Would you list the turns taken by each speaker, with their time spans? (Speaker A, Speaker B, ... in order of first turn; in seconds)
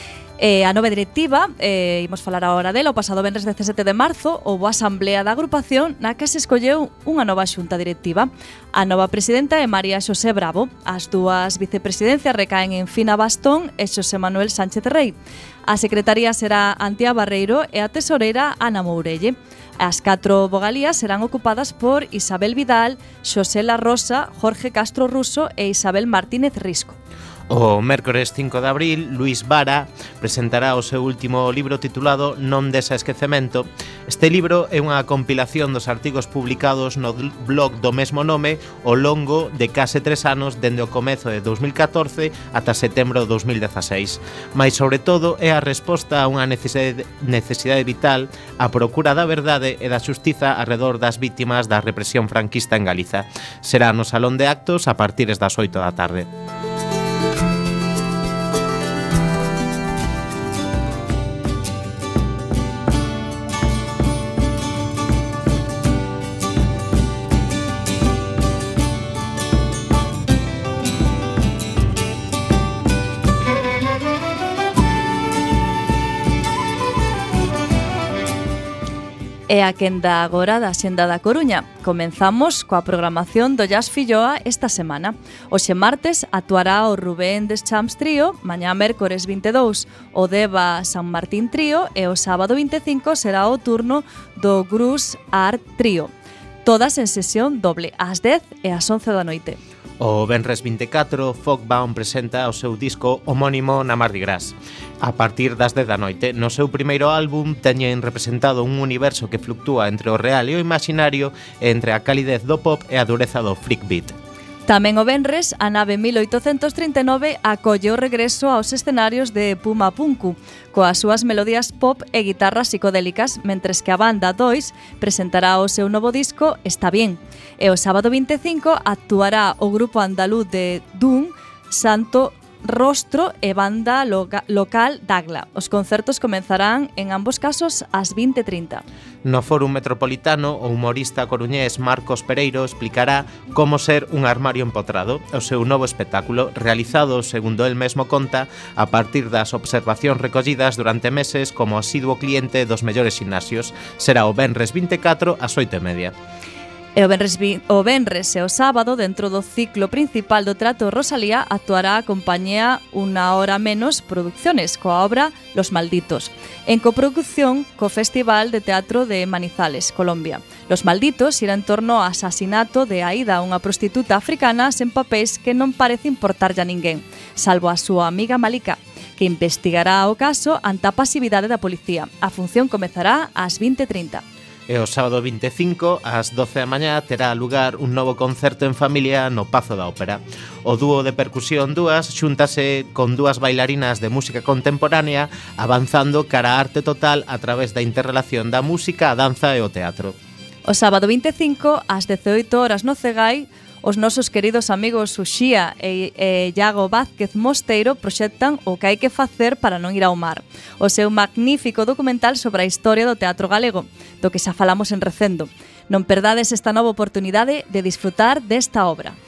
Speaker A: 0.4-15.2, 15.7-27.0, 79.5-96.1, 96.6-99.6, 114.7-138.8, 156.9-184.2, 200.7-219.2
Speaker B: 27.5-56.3, 100.0-114.1, 139.2-156.1, 184.7-200.2